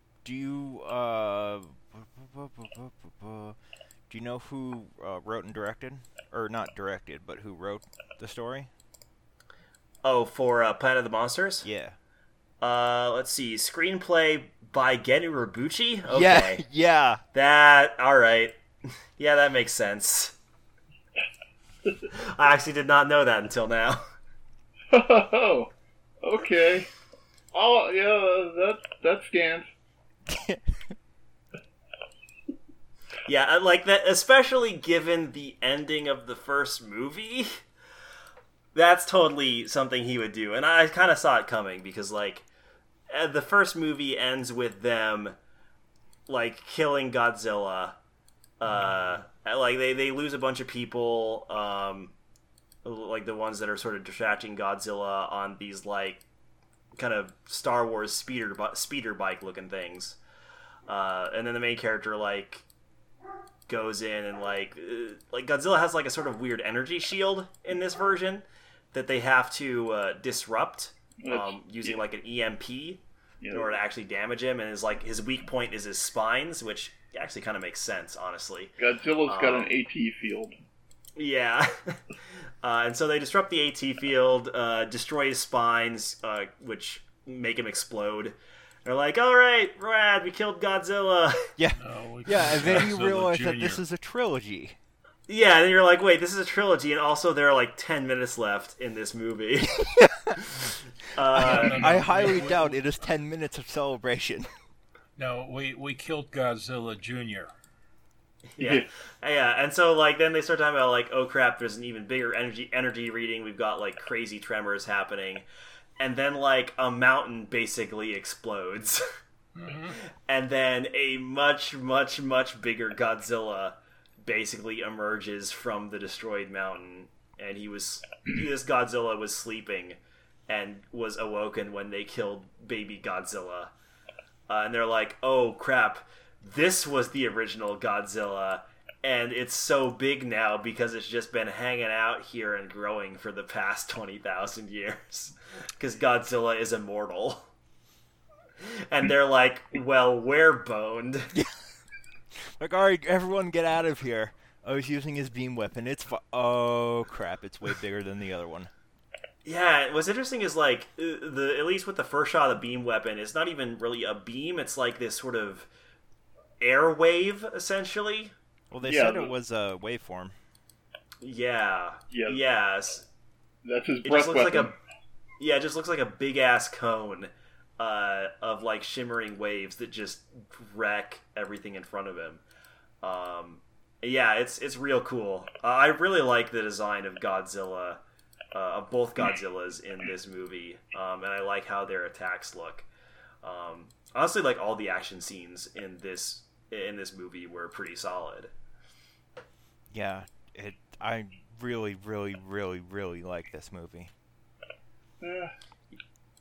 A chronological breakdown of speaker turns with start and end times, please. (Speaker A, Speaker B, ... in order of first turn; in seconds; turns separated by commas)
Speaker A: 0.2-3.5, Speaker A: 4.1-8.7, Speaker B: 10.0-11.7, Speaker A: 11.6-12.0, Speaker B: 12.6-16.6, Speaker A: 16.1-17.2, Speaker B: 17.3-20.3, Speaker B: 22.1-24.0, Speaker C: 24.9-25.7, Speaker C: 26.2-26.9, Speaker C: 27.5-29.6, Speaker A: 30.2-30.9, Speaker B: 33.2-37.6, Speaker B: 38.7-42.4, Speaker B: 43.1-45.4, Speaker B: 46.3-48.0, Speaker B: 48.6-52.1, Speaker B: 52.8-56.2, Speaker B: 57.0-60.2, Speaker B: 60.9-62.6, Speaker B: 63.7-78.7, Speaker C: 71.2-72.0, Speaker C: 73.4-73.7, Speaker C: 78.8-80.5, Speaker B: 79.3-79.7, Speaker B: 81.2-82.0, Speaker B: 82.6-91.5, Speaker A: 91.6-94.8, Speaker D: 91.8-93.8, Speaker B: 95.3-101.8, Speaker A: 100.0-100.4, Speaker D: 101.3-103.0, Speaker A: 101.4-104.5, Speaker D: 105.2-107.5, Speaker B: 108.6-115.4, Speaker C: 108.6-108.8, Speaker B: 116.0-119.0, Speaker D: 119.5-120.0, Speaker B: 119.9-130.0, Speaker B: 130.5-133.7, Speaker B: 134.5-147.5, Speaker B: 148.6-151.3, Speaker A: 152.6-158.7, Speaker B: 159.4-165.7, Speaker B: 166.6-168.3, Speaker A: 168.7-170.3, Speaker C: 168.8-169.3, Speaker B: 171.2-173.1, Speaker C: 172.1-172.4, Speaker C: 173.6-174.7, Speaker B: 174.0-174.7, Speaker B: 175.4-182.4, Speaker B: 183.0-188.0, Speaker B: 188.5-192.9, Speaker B: 193.4-198.5, Speaker A: 199.9-204.1, Speaker C: 205.2-205.5